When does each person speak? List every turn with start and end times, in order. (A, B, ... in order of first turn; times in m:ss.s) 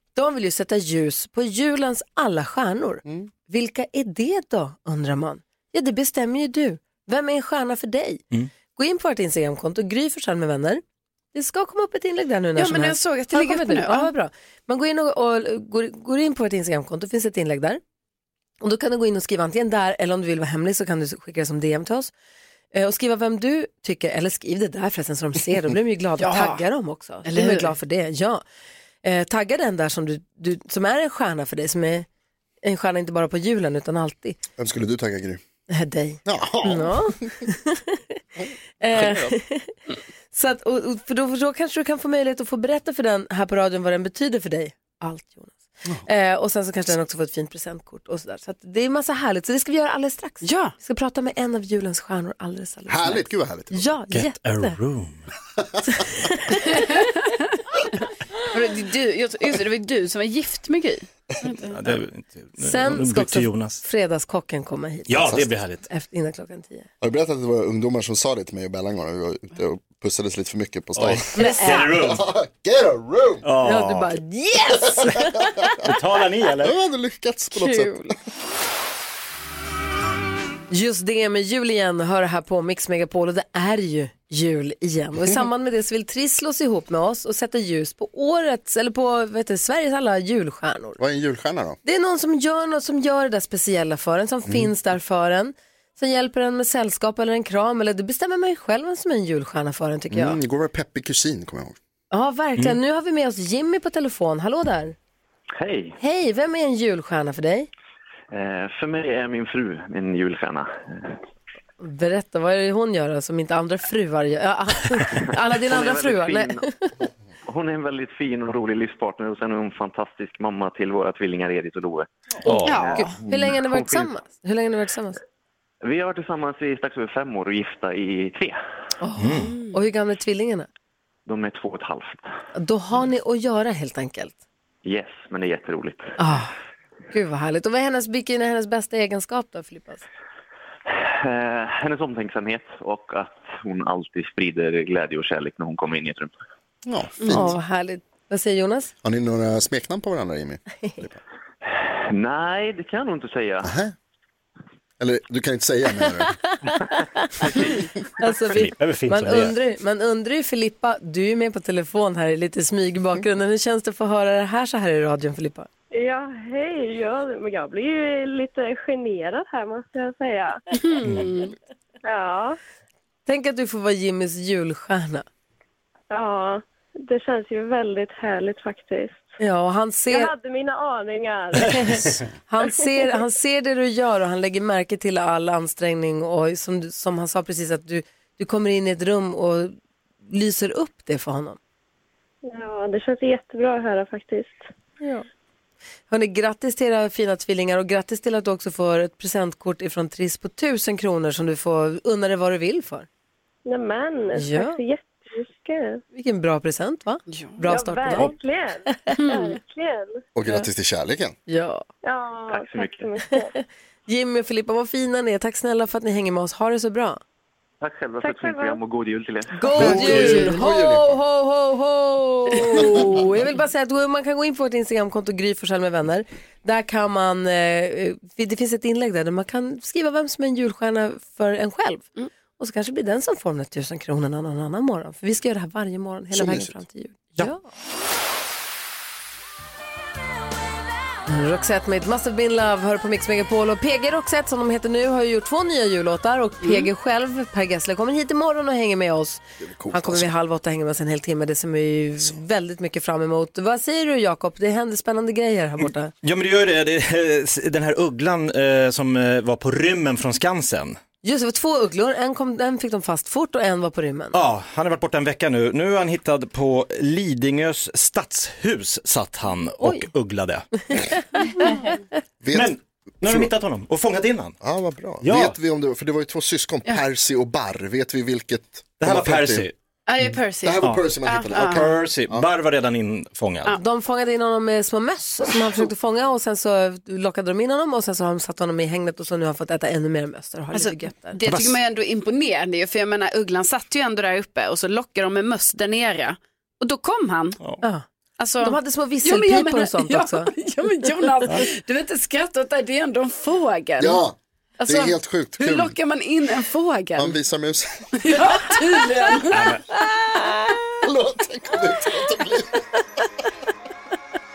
0:00.1-0:10.8 A
0:11.3-0:17.8 A
0:12.6-0:14.1 B
0:18.6-0:22.1 A
0:22.7-0:28.4 A
0:26.2-0:26.6 B
0:27.3-0:27.7 B
0:29.0-0:32.0 A
0:32.6-0:34.4 A
0:34.6-0:35.4 C
0:35.7-0:38.2 A
0:36.2-0:37.3 C
0:38.8-0:39.7 A
0:40.3-0:54.8 A
0:50.4-0:50.7 B
0:52.9-0:53.8 C
0:54.1-0:55.2 D
0:55.9-0:56.8 A
0:56.7-0:57.0 B
0:58.5-1:02.0 B
1:01.7-1:03.8 D
1:02.6-1:06.9 A
1:05.1-1:05.8 D
1:07.0-1:11.3 C
1:11.0-1:12.2 D
1:11.4-1:12.0 A
1:11.9-1:13.4 C
1:13.4-1:14.1 D
1:13.6-1:15.9 A
1:15.8-1:16.8 D
1:16.6-1:18.1 C
1:17.5-1:18.1 A
1:20.7-1:31.0 A
1:31.0-1:31.8 C
1:31.8-1:40.4 A
1:40.1-1:41.8 C
1:42.1-1:44.9 A
1:45.6-1:46.0 E
1:46.0-1:47.7 A
1:48.3-1:51.2 E
1:51.8-1:56.9 A
1:55.2-1:56.6 E
1:57.5-2:04.1 E
2:02.4-2:05.2 A
2:02.4-2:03.1 B
2:05.8-2:08.6 E
2:09.0-2:10.7 A
2:09.2-2:09.6 D
2:09.5-2:09.8 B
2:11.3-2:12.3 E
2:12.5-2:14.3 A
2:14.8-2:16.1 E
2:16.2-2:16.5 A
2:17.1-2:20.0 A
2:20.9-2:26.3 E
2:26.8-2:27.5 C
2:27.3-2:28.9 A
2:29.0-2:31.2 C
2:31.7-2:33.7 E
2:33.6-2:33.9 C
2:35.0-2:36.4 C
2:38.2-2:45.7 A
2:38.5-2:39.5 D
2:45.9-2:50.6 F
2:50.7-2:51.5 B
2:52.0-2:52.6 F
2:53.2-2:55.2 A
2:56.1-2:59.3 F
2:59.4-3:00.3 A
3:00.1-3:02.1 F
3:01.6-3:09.7 A
3:10.3-3:11.6 A
3:12.4-3:14.7 F
3:15.0-3:15.2 A
3:16.1-3:23.1 A
3:23.6-3:26.0 F
3:24.4-3:24.8 A
3:26.1-3:28.3 A
3:27.3-3:27.6 B
3:27.6-3:30.2 F
3:29.2-3:29.6 B
3:30.3-3:31.4 C
3:31.5-3:31.8 A
3:32.0-3:33.6 F
3:32.5-3:33.1 E
3:33.4-3:37.2 A
3:37.8-3:39.8 E
3:38.2-3:38.8 F
3:39.5-3:57.6 A
3:39.8-3:41.2 C
3:39.9-3:40.5 D
3:42.7-3:43.0 B
3:56.3-3:56.7 C
4:01.3-4:16.1 A
4:06.6-4:06.9 B
4:09.6-4:10.3 C
4:16.2-4:21.0 D
4:21.2-4:24.3 A
4:24.3-4:30.6 D
4:32.4-4:33.5 C
4:32.5-4:34.6 D
4:34.6-4:39.7 C
4:35.2-4:35.5 D
4:39.0-4:39.7 D
4:40.1-4:41.9 B
4:40.6-4:42.5 C
4:40.8-4:43.8 D
4:43.8-4:51.4 A
4:50.7-4:57.6 B
4:51.4-4:51.8 D
4:58.4-5:04.2 B
4:58.6-5:00.5 A
5:04.0-5:05.9 C
5:04.8-5:07.3 B
5:07.2-5:08.2 C
5:08.2-5:09.7 B
5:09.5-5:09.8 D
5:10.1-5:10.8 A
5:11.0-5:12.8 C